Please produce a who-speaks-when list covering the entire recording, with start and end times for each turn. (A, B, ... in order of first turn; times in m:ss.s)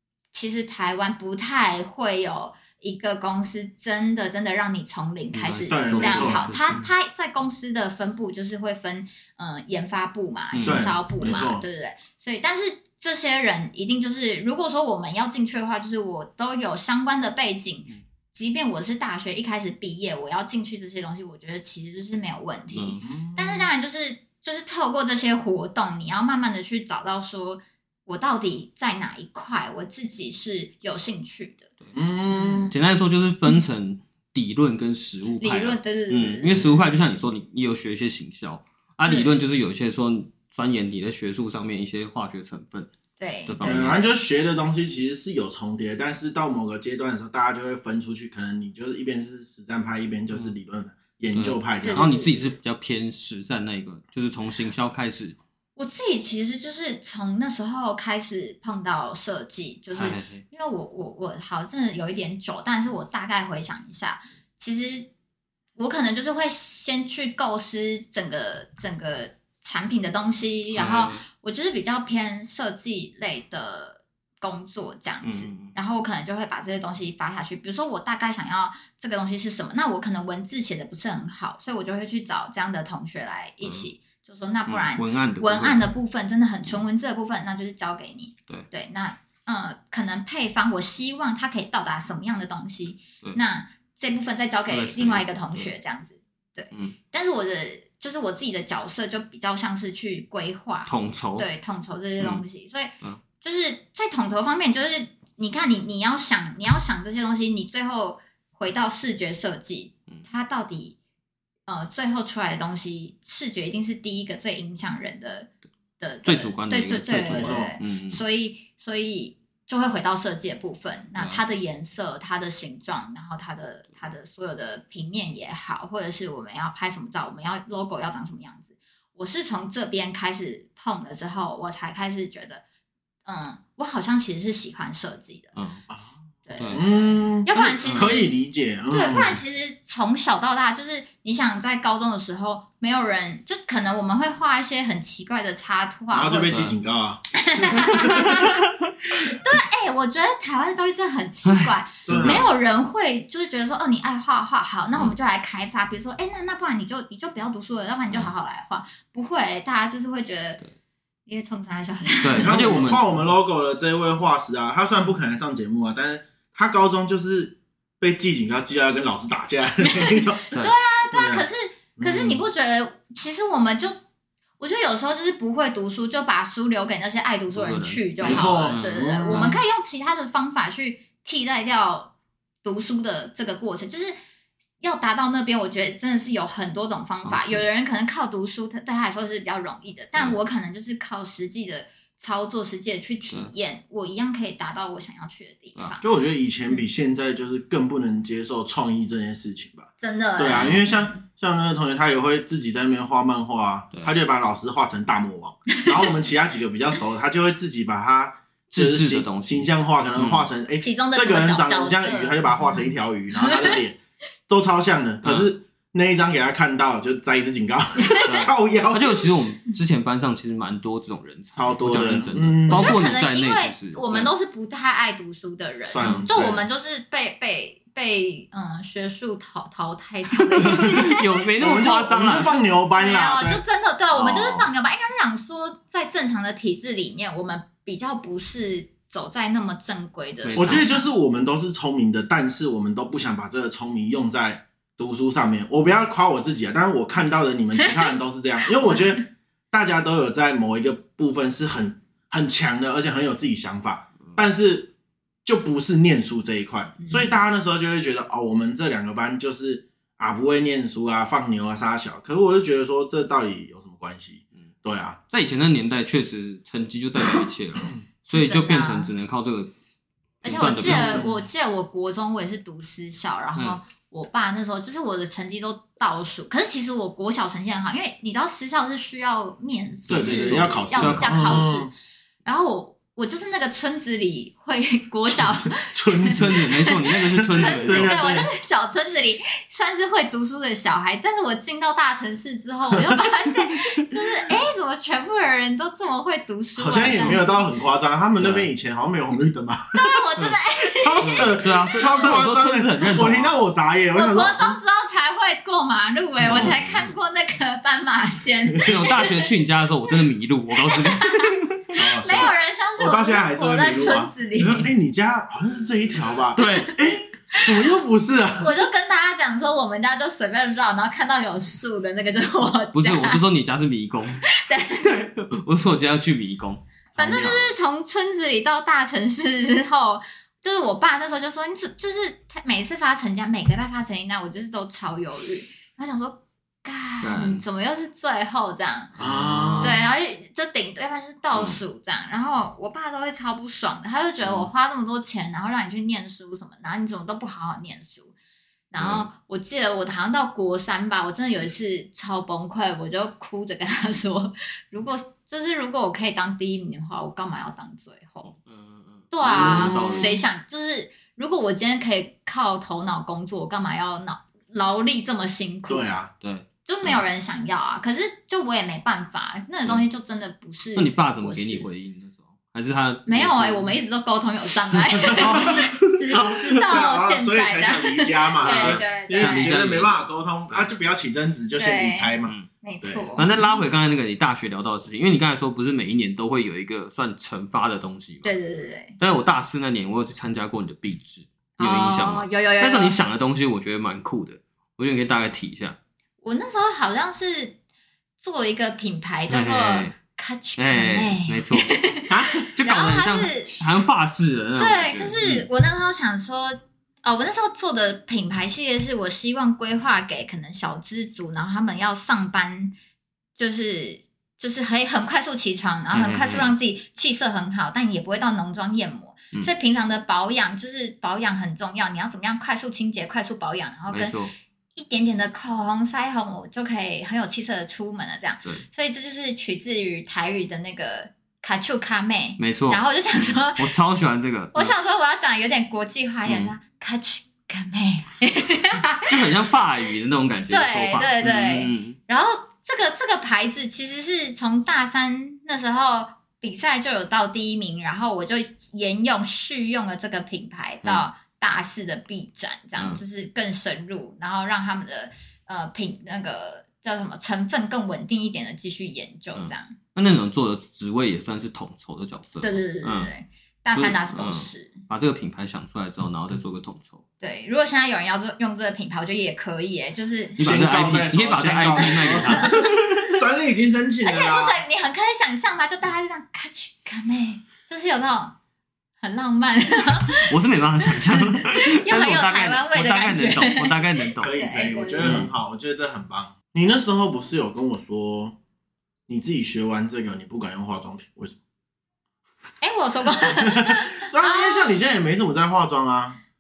0:00.3-0:31.7 A
0:05.3-0:06.8 B
0:05.7-0:06.9 C
0:10.5-0:10.9 B
0:10.6-0:11.6 C
0:22.8-0:23.0 B
0:23.0-0:23.7 C
0:31.9-0:32.8 C
0:32.7-0:42.9 B
0:35.4-0:36.8 A
0:39.0-0:39.3 A
0:43.2-0:44.1 A
0:43.5-0:44.0 B
0:43.6-0:52.1 C
0:51.3-0:55.4 B
0:51.8-0:52.5 A
0:55.8-1:05.1 A
1:00.0-1:00.4 B
1:05.8-1:51.0 A
1:10.7-1:11.2 B
1:15.2-1:15.8 B
1:23.6-1:23.9 B
1:24.7-1:25.9 B
1:34.7-1:35.7 B
1:40.9-1:41.5 B
1:51.7-2:12.6 A
1:56.2-1:58.2 B
1:57.3-1:57.7 C
2:13.3-2:15.6 A
2:15.6-2:15.8 B
2:15.9-2:16.2 C
2:16.5-2:18.3 A
2:16.6-2:16.8 B
2:16.7-2:19.4 C
2:17.8-2:18.1 B
2:18.9-2:26.6 A
2:26.1-2:28.4 C
2:27.4-2:40.6 A
2:31.5-2:32.5 B
2:32.1-2:32.5 C
2:41.3-2:42.6 A
2:42.2-2:43.0 B
2:42.4-2:50.5 C
2:49.8-2:54.0 A
2:51.1-2:51.4 C
2:52.0-2:52.4 C
2:54.6-3:04.2 A
2:57.5-2:59.6 B
2:58.2-2:59.6 C
3:04.8-3:16.1 A
3:07.2-3:07.6 B
3:16.0-3:34.0 C
3:20.0-3:21.2 A
3:20.5-3:20.8 B
3:28.7-3:30.5 B
3:30.8-3:33.8 A
3:34.5-3:39.3 C
3:35.2-3:35.5 B
3:38.0-3:38.3 A
3:38.3-3:44.3 B
3:41.6-3:43.2 C
3:42.7-4:01.0 A
3:45.9-3:46.6 C
3:46.0-3:46.3 B
3:50.6-3:52.6 B
3:50.6-3:51.1 C
3:51.6-3:53.6 C
3:54.1-3:54.7 B
4:00.4-4:00.9 B
4:00.6-4:14.9 C
4:08.8-4:09.2 A
4:15.4-4:25.2 C
4:17.0-4:17.4 A
4:25.3-4:29.7 B
4:28.3-4:29.1 A
4:30.4-4:31.2 B
4:30.4-4:41.9 A
4:30.8-4:31.4 C
4:40.1-4:41.6 B
4:40.1-4:41.9 C
4:42.4-4:57.6 A
4:45.6-4:48.5 C
4:46.3-4:48.2 B
4:56.8-4:59.9 C
4:56.9-4:57.4 B
4:58.4-4:58.7 B
4:59.9-5:02.4 A
5:00.8-5:04.8 C
5:01.2-5:03.5 B
5:04.1-5:09.5 A
5:06.4-5:06.8 C
5:06.5-5:07.1 B
5:08.8-5:11.8 B
5:10.8-5:14.9 A
5:11.9-5:18.7 C
5:16.6-5:16.9 B
5:16.8-5:17.7 A
5:18.6-5:23.4 A
5:22.9-5:27.7 B
5:24.4-5:25.1 A
5:27.2-5:39.1 A
5:37.2-5:37.6 B
5:39.2-5:40.0 B
5:39.2-5:40.0 C
5:39.8-5:48.3 A
5:41.6-5:41.8 B
5:44.4-5:44.7 B
5:48.9-5:58.5 A
5:49.0-5:49.3 B
5:58.4-6:00.4 B
5:59.3-6:06.1 A
5:59.5-6:00.4 C
6:05.9-6:06.3 C
6:06.4-6:07.2 B
6:06.8-6:11.9 A
6:11.0-6:14.0 B
6:13.3-6:19.7 A
6:15.2-6:16.8 B
6:15.2-6:23.4 C
6:18.6-6:20.9 B
6:21.8-6:23.8 A
6:23.4-6:28.5 B
6:28.4-6:29.2 A
6:29.2-6:36.0 B
6:31.8-6:33.2 A
6:36.4-6:37.8 A
6:38.4-6:42.3 A
6:39.5-6:40.1 B
6:40.8-6:42.1 B
6:42.3-6:42.7 C
6:42.7-6:45.7 B
6:42.8-6:43.8 A
6:44.8-6:52.9 A
6:53.6-7:04.4 A
6:56.1-6:56.7 B
7:04.1-7:04.5 B
7:05.0-7:13.9 A
7:12.6-7:14.9 B
7:14.7-7:19.3 A
7:16.4-7:16.7 B
7:19.2-7:22.2 B
7:20.7-7:40.0 A
7:39.6-7:43.3 B
7:42.6-7:45.0 A
7:43.9-7:47.2 B
7:47.4-7:50.6 A
7:50.6-7:52.7 B
7:50.6-7:54.8 C
7:52.5-7:52.9 A
7:54.2-7:58.6 A
7:59.2-8:00.5 A
8:00.5-8:04.5 B
8:01.0-8:05.3 A
8:04.4-8:08.6 C
8:05.2-8:05.5 B
8:09.3-8:11.6 C
8:12.8-8:15.0 A
8:13.4-8:16.4 C